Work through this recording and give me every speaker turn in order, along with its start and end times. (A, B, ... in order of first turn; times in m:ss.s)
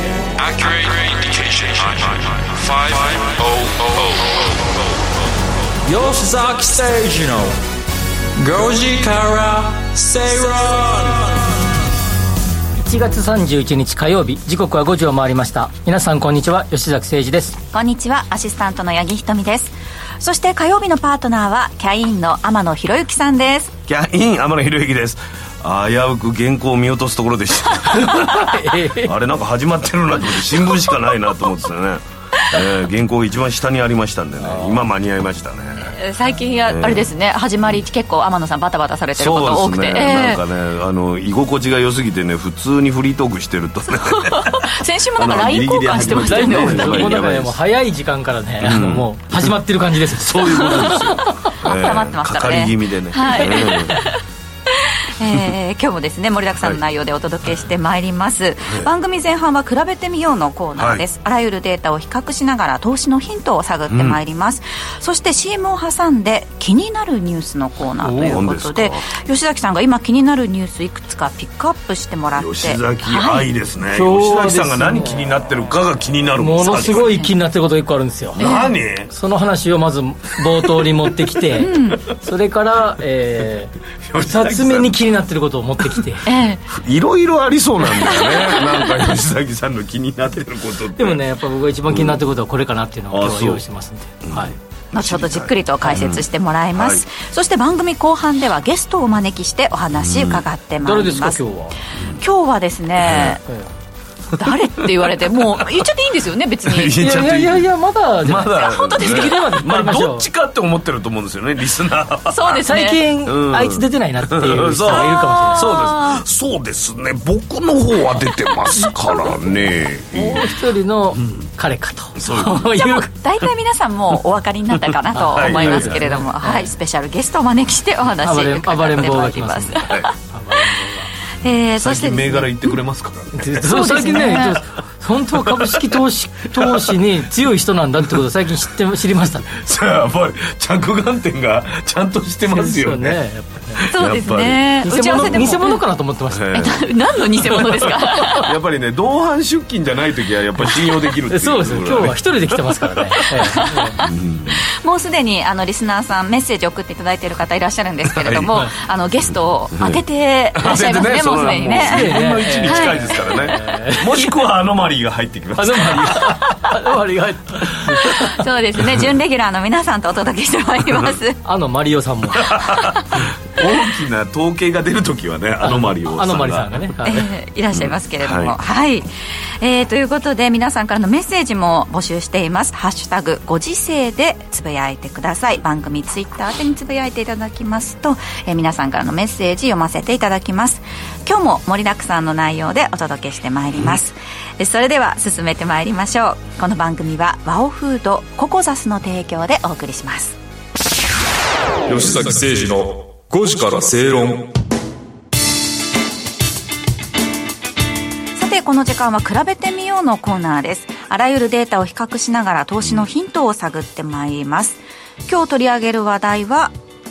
0:00.4-0:04.6 A
0:05.9-0:07.6 B
0:08.4-0:11.4 B
0:12.8-0:17.6 C
0:17.7-0:23.8 D
0:23.9-0:36.0 E
0:28.3-0:29.1 C
0:34.4-0:34.8 C
0:35.9-0:40.4 D
0:36.7-0:37.1 E
0:39.2-0:47.6 E
0:44.1-0:47.2 D
0:46.0-0:51.1 C
0:48.6-0:49.6 E
0:50.2-0:54.0 E
0:50.6-0:51.1 D
0:51.6-0:54.2 D
0:53.4-0:53.7 C
0:54.7-1:13.5 D
1:00.8-1:01.0 E
1:03.9-1:04.2 E
1:08.0-1:08.4 C
1:08.2-1:09.1 E
1:12.4-1:17.2 E
1:13.9-1:15.3 C
1:16.4-1:18.5 C
1:16.7-1:17.3 D
1:18.4-1:18.7 D
1:18.4-1:19.1 E
1:19.1-1:26.2 C
1:21.6-1:22.1 D
1:24.0-1:25.0 E
1:26.3-1:26.6 D
1:26.7-1:31.2 E
1:28.0-1:28.9 D
1:31.0-1:34.5 C
1:31.9-1:32.2 E
1:33.1-1:33.6 E
1:34.2-1:37.0 E
1:34.9-1:41.4 D
1:39.9-1:40.4 E
1:40.8-1:41.8 C
1:42.2-1:43.4 D
1:43.0-1:43.4 E
1:44.4-1:47.0 D
1:45.1-1:45.8 E
1:46.7-1:47.7 E
1:47.0-1:50.3 C
1:48.2-1:52.7 E
1:48.6-1:49.5 D
1:52.3-1:53.0 D
1:52.5-1:55.7 C
1:53.2-2:00.6 E
1:54.9-1:56.2 D
2:00.2-2:03.1 C
2:01.2-2:01.4 E
2:02.2-2:02.7 E
2:02.7-2:10.1 D
2:04.8-2:06.0 E
2:05.2-2:06.7 C
2:08.2-2:11.1 C
2:11.4-2:12.8 D
2:11.8-2:14.6 E
2:13.4-2:19.5 C
2:13.7-2:14.6 D
2:15.4-2:16.0 E
2:16.5-2:17.0 E
2:19.5-2:23.2 E
2:22.5-2:23.9 C
2:23.8-2:25.6 E
2:23.9-2:25.8 D
2:24.8-2:26.5 C
2:26.3-2:34.6 E
2:26.5-2:28.5 D
2:31.3-2:34.0 C
2:33.5-2:43.5 D
2:38.1-2:38.5 E
2:40.6-2:46.7 E
2:41.8-2:44.5 C
2:45.6-2:48.4 C
2:48.1-2:51.4 D
2:51.4-2:52.5 C
2:52.4-2:56.9 E
2:52.6-2:53.0 D
2:55.6-2:57.3 C
2:57.0-2:59.1 D
2:57.7-2:58.6 E
2:59.6-3:20.4 D
3:21.9-3:24.6 A
3:28.4-3:36.7 D